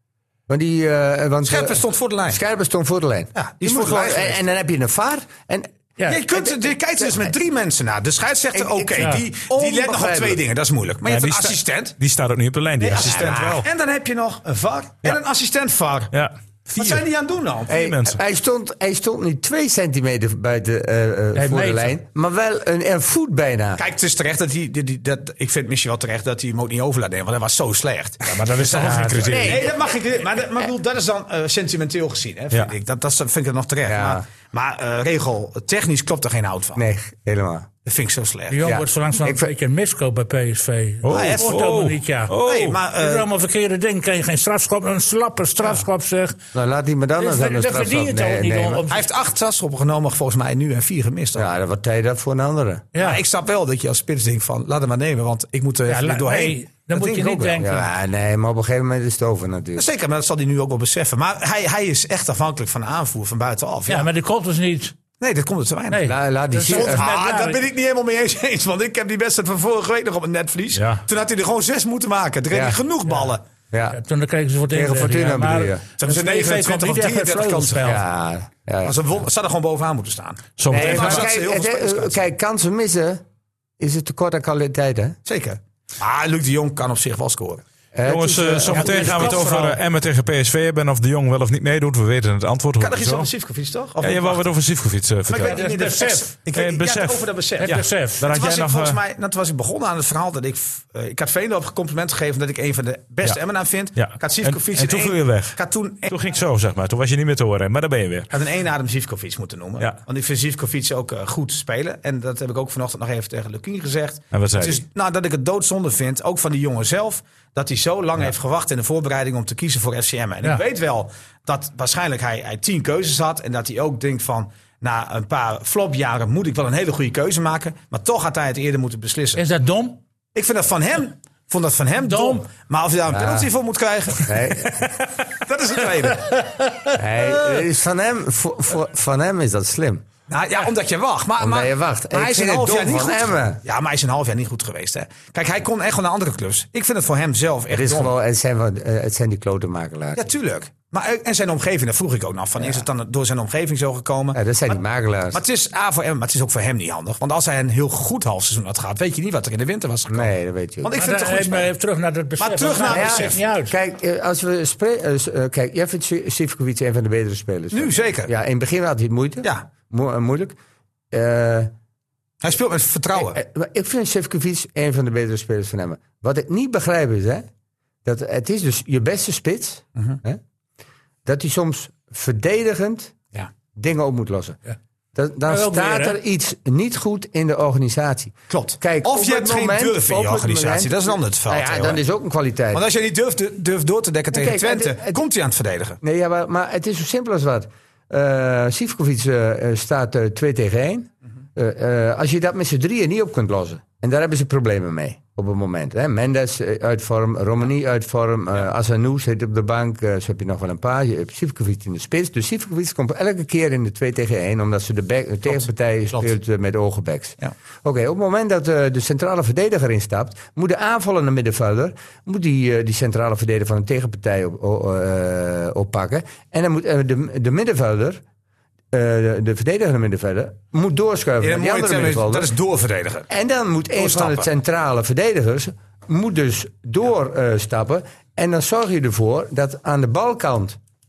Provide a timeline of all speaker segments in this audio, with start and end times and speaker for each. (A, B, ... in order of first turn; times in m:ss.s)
0:00.5-0:05.7 A
0:01.4-0:02.4 B
0:03.4-0:04.4 B
0:06.1-0:11.9 B
0:06.3-0:07.3 A
0:08.5-0:10.4 A
0:09.0-0:09.2 C
0:11.0-0:13.6 D
0:12.8-0:16.1 B
0:12.9-0:13.6 A
0:16.1-0:17.0 D
0:16.7-0:17.7 B
0:17.7-0:18.2 D
0:17.7-0:23.8 A
0:21.4-0:21.9 C
0:23.8-0:36.8 B
0:28.3-0:29.7 D
0:29.2-0:29.7 A
0:33.9-0:34.2 A
0:36.8-0:37.7 A
0:37.8-0:38.6 B
0:38.5-0:42.3 C
0:38.6-0:39.5 A
0:41.0-0:42.8 D
0:41.1-0:41.5 B
0:42.4-0:43.3 B
0:42.9-0:46.4 C
0:46.5-0:48.8 A
0:47.2-0:49.1 C
0:48.9-0:51.5 B
0:51.4-0:52.9 A
0:52.9-0:53.2 C
0:53.0-0:57.6 B
0:55.9-0:57.9 C
0:57.6-0:59.8 A
0:59.8-1:04.1 B
1:03.9-1:04.9 C
1:05.2-1:06.0 B
1:05.9-1:07.6 C
1:06.0-1:07.0 A
1:06.6-1:13.4 B
1:10.7-1:11.0 D
1:12.5-1:12.8 A
1:13.7-1:14.0 A
1:13.9-1:18.0 C
1:14.7-1:15.8 A
1:16.0-1:18.0 B
1:17.8-1:19.0 A
1:18.8-1:22.2 B
1:20.6-1:21.3 D
1:20.7-1:23.2 A
1:23.8-1:25.2 A
1:25.2-1:27.6 B
1:27.9-1:29.4 A
1:28.0-1:33.3 D
1:28.7-1:29.8 C
1:28.8-1:29.7 B
1:32.8-1:34.5 B
1:34.0-1:35.6 D
1:35.3-1:46.1 B
1:35.4-1:36.4 C
1:36.5-1:39.0 D
1:37.6-1:38.2 C
1:43.9-1:48.3 D
1:48.3-2:09.4 B
1:54.3-1:54.8 D
2:09.4-2:10.0 C
2:10.3-2:14.4 B
2:12.0-2:12.5 C
2:13.1-2:13.5 A
2:14.1-2:14.9 A
2:15.4-2:16.3 B
2:16.3-2:16.9 C
2:16.9-2:20.0 A
2:20.3-2:28.1 B
2:21.4-2:23.6 A
2:27.7-2:30.3 A
2:30.2-2:34.8 B
2:32.6-2:32.8 A
2:34.3-2:35.4 A
2:35.3-2:41.7 B
2:40.1-2:40.9 A
2:40.9-2:43.7 C
2:42.4-2:43.4 B
2:42.9-2:50.6 A
2:47.7-2:48.3 B
2:51.1-2:51.7 A
2:52.4-2:53.4 B
2:53.1-2:57.5 A
2:58.0-3:00.4 A
3:01.2-3:03.2 A
3:03.8-3:04.6 A
3:05.1-3:12.8 A
3:05.5-3:06.2 C
3:08.5-3:12.0 B
3:12.7-3:16.0 B
3:14.3-3:15.2 A
3:16.0-3:48.2 A
3:48.9-3:52.5 A
3:51.4-3:53.3 B
3:53.3-4:00.8 A
3:53.9-3:54.5 B